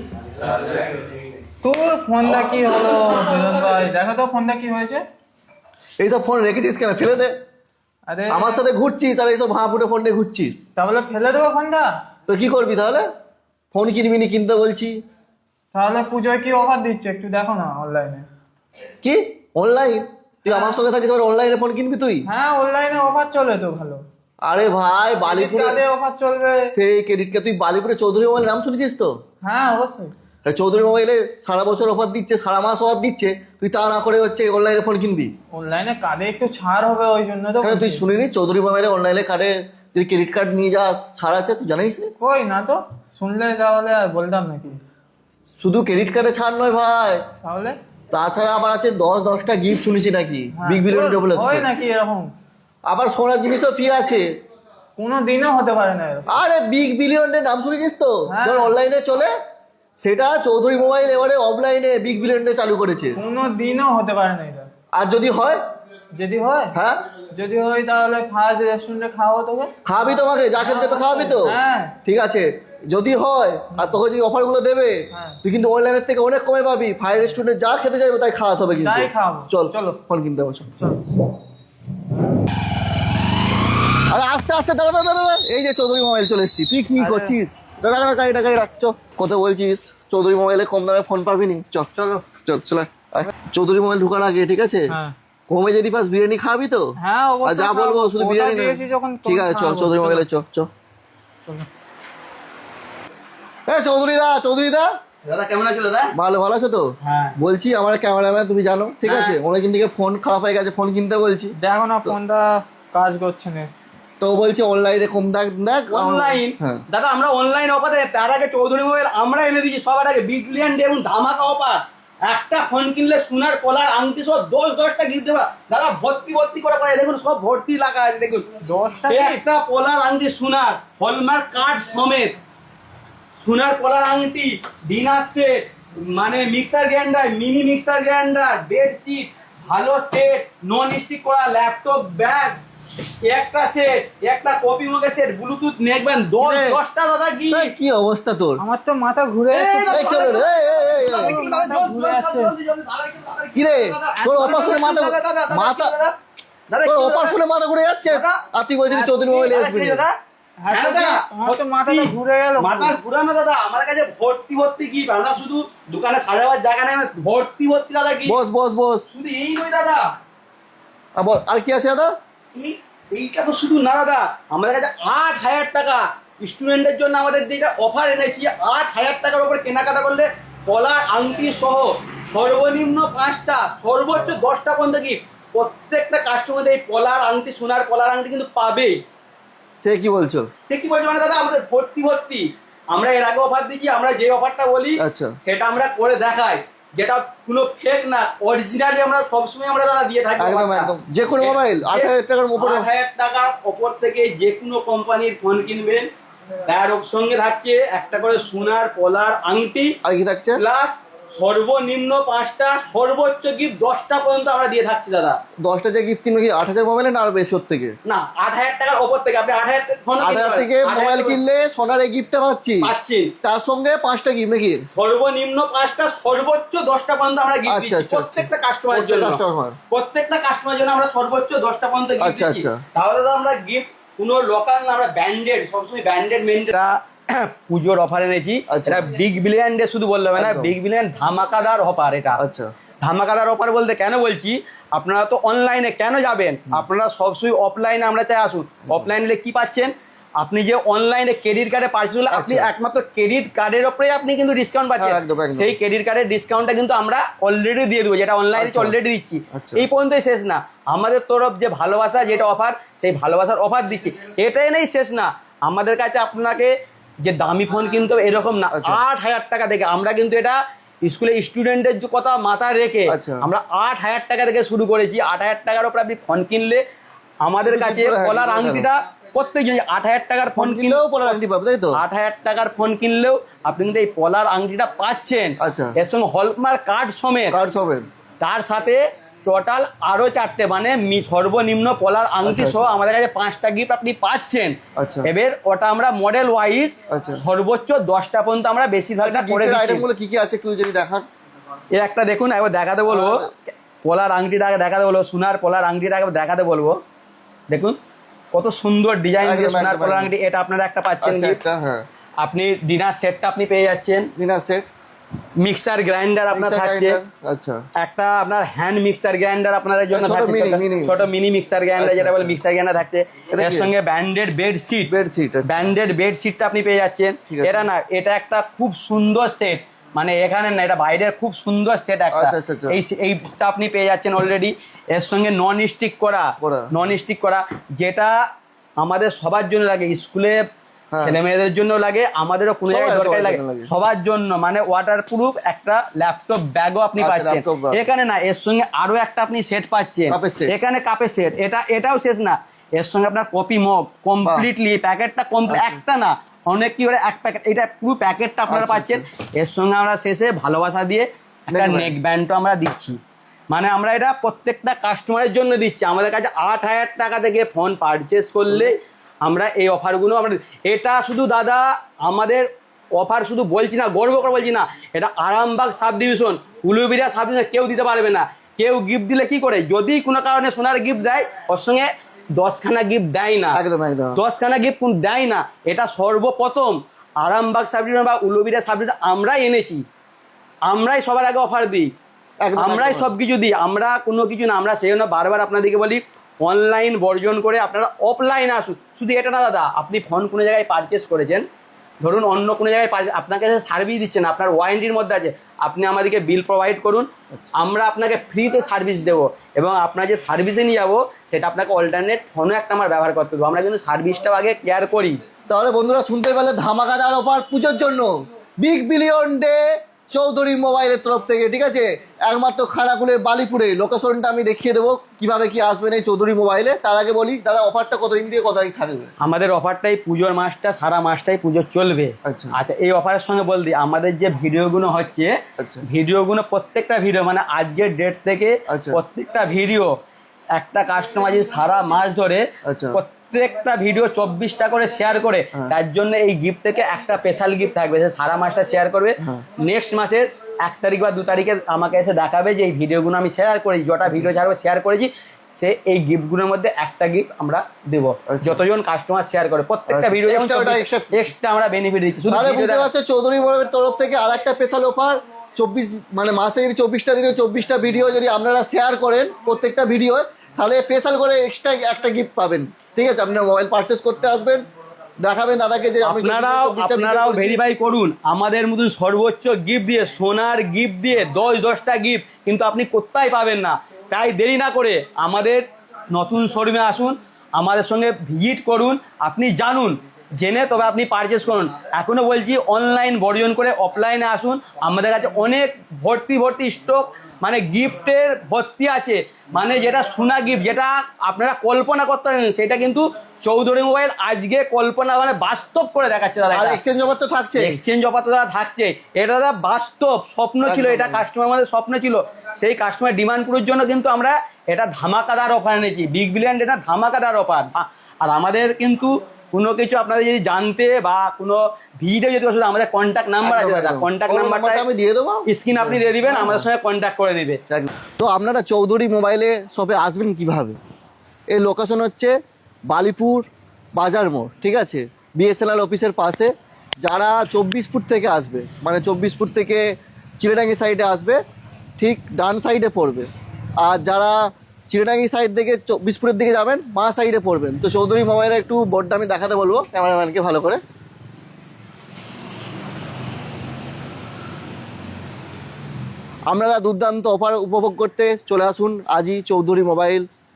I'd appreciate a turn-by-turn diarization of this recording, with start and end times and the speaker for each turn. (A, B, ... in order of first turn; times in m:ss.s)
0:01.6-0:05.0 A
0:06.0-0:07.3 B
0:08.1-0:08.6 A
0:08.3-0:10.6 B
0:10.8-0:11.9 A
0:12.3-0:13.1 B
0:13.7-0:15.0 B
0:15.7-0:18.2 A
0:19.0-0:22.2 B
0:20.5-0:20.8 A
0:22.3-0:24.0 A
0:24.4-0:25.8 B
0:25.2-0:26.7 A
0:26.7-0:29.1 B
0:29.4-0:30.1 A
0:30.4-0:35.3 B
0:35.5-0:38.0 A
0:37.6-0:42.1 B
0:42.2-0:44.8 A
0:45.5-0:47.2 B
0:47.4-0:47.8 A
0:48.1-0:51.7 B
0:50.5-0:52.3 A
0:52.8-0:54.3 B
0:55.0-0:56.3 A
0:56.3-0:59.3 B
0:58.3-0:58.7 A
1:00.0-1:03.2 B
1:03.2-1:04.7 A
1:04.9-1:05.6 B
1:06.1-1:06.8 A
1:06.7-1:07.0 B
1:07.3-1:09.7 A
1:09.8-1:20.7 B
1:10.6-1:12.0 A
1:15.1-1:15.4 A
1:18.7-1:20.0 A
1:24.1-1:31.9 B
1:27.0-1:27.3 A
1:31.9-1:32.2 A
1:32.4-1:35.0 B
1:34.9-1:35.1 A
1:35.5-1:40.7 B
1:37.0-1:40.2 A
1:43.7-1:44.9 B
1:45.2-1:46.1 C
1:46.1-1:51.5 B
1:47.0-1:47.4 C
1:49.0-1:49.4 C
1:51.6-1:53.7 A
1:54.2-1:56.8 B
1:55.9-2:08.5 C
2:08.6-2:09.4 A
2:09.1-2:12.4 C
2:13.4-2:22.6 C
2:23.2-2:27.7 C
2:26.4-2:26.8 B
2:27.4-2:28.6 B
2:28.6-2:32.5 A
2:29.5-2:36.1 C
2:29.9-2:31.4 B
2:33.5-2:35.9 B
2:36.7-2:37.4 C
2:36.8-2:40.0 B
2:38.1-2:38.4 C
2:38.9-2:39.6 A
2:39.5-2:40.1 C
2:40.6-2:43.0 A
2:40.7-2:48.4 C
2:48.2-2:49.1 B
2:49.1-2:50.1 C
2:51.2-2:52.1 B
2:52.5-3:09.0 C
3:09.8-3:10.5 B
3:10.7-3:26.1 C
3:15.0-3:15.3 B
3:20.4-3:22.9 B
3:26.6-3:30.0 C
3:30.0-3:30.6 B
3:30.6-3:35.4 C
3:35.6-3:37.9 B
3:38.0-3:41.4 C
3:40.2-3:42.9 B
3:42.8-3:43.3 C
3:43.4-3:44.8 B
3:44.9-4:02.4 C
3:47.7-3:49.8 B
3:52.2-3:52.8 B
3:58.7-3:59.1 B
4:00.4-4:00.7 B
4:02.4-4:02.7 B
4:03.0-4:36.8 C
4:12.3-4:12.7 B
4:15.0-4:15.8 B
4:18.6-4:18.9 B
4:19.5-4:19.8 B
4:28.7-4:29.0 B
4:33.1-4:33.4 B
4:37.4-4:41.4 C
4:37.6-4:38.9 B
4:40.6-4:42.0 B
4:41.9-4:47.6 C
4:45.6-4:45.9 B
4:47.5-4:48.1 B
4:48.4-5:00.0 C
4:52.4-4:52.9 B
4:55.0-4:55.3 B
4:57.1-4:57.4 B
4:59.2-5:01.2 B
5:01.9-5:07.0 C
5:03.1-5:03.5 B
5:07.7-5:08.0 C
5:08.5-5:11.6 C
5:09.4-5:10.3 B
5:11.2-5:12.0 B
5:12.4-5:14.3 C
5:14.4-5:14.9 B
5:15.6-5:17.2 C
5:16.5-5:17.8 B
5:18.0-5:25.1 C
5:20.1-5:21.2 B
5:22.0-5:22.6 B
5:23.5-5:23.9 B
5:25.1-5:25.9 B
5:25.6-5:38.4 C
5:27.5-5:27.9 B
5:32.3-5:33.0 B
5:36.6-5:36.9 B
5:39.0-5:40.6 C
5:41.1-5:41.4 B
5:41.2-6:03.2 C
5:42.9-5:43.9 B
5:47.2-5:48.0 B
5:50.3-5:50.7 B
5:55.7-5:56.0 B
5:58.7-5:59.2 B
6:01.7-6:02.1 B
6:03.7-6:23.8 C
6:23.7-6:24.4 B
6:24.3-6:30.0 C
6:30.8-6:32.1 C
6:32.6-6:33.3 B
6:32.8-6:41.6 C
6:42.2-6:55.4 C
6:55.7-7:09.3 B
7:09.4-7:20.1 C
7:12.4-7:12.8 B
7:15.8-7:16.0 B
7:18.9-7:19.2 B
7:20.8-7:43.1 C
7:22.8-7:23.2 B
7:34.2-7:34.5 B
7:38.5-7:38.8 B
7:40.1-7:41.4 B
7:42.5-7:54.8 B
7:55.4-7:57.8 B
7:56.2-8:27.0 C
8:26.7-8:28.0 B
8:27.8-8:45.0 C
8:30.8-8:31.4 B
8:43.6-8:46.9 B
8:45.7-8:47.8 C
8:47.9-8:51.0 B
8:51.7-8:52.5 B
8:53.1-8:56.7 B
8:57.2-9:00.0 B
9:00.6-9:01.6 B
9:02.2-9:03.5 B
9:04.0-9:11.0 B
9:16.7-9:20.5 B